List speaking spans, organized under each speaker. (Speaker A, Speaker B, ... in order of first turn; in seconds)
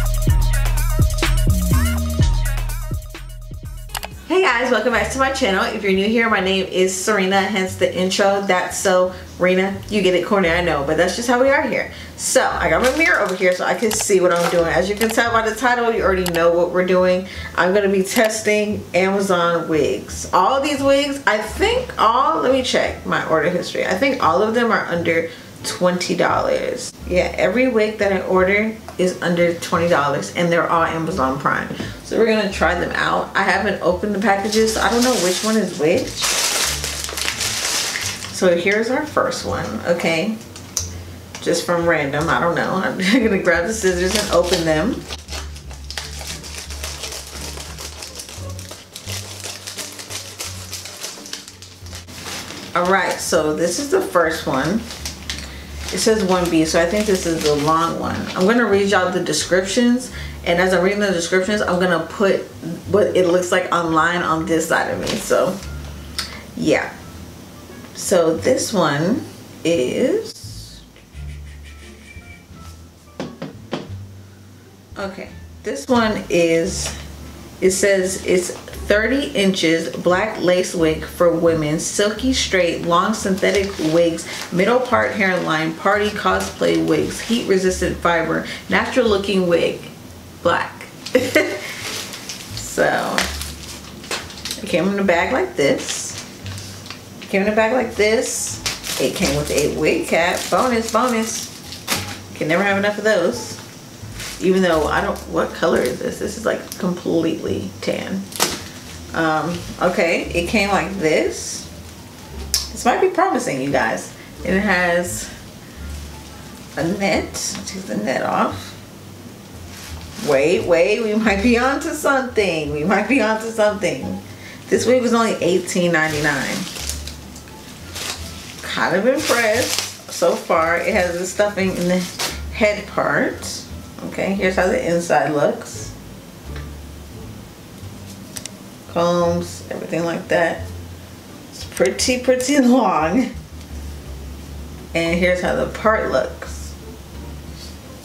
Speaker A: 4.3-36.3, 38.3-40.4, 41.4-45.0, 52.7-54.8, 55.9-65.6, 66.5-66.9, 67.9-70.8, 75.0-76.9, 77.6-91.7, 92.5-93.2, 94.6-96.2, 97.2-101.5, 102.3-103.6, 104.4-108.2, 109.1-111.7, 112.7-115.3, 116.8-118.8, 120.2-126.7, 128.6-135.9, 138.9-140.6, 141.5-143.3, 144.9-146.7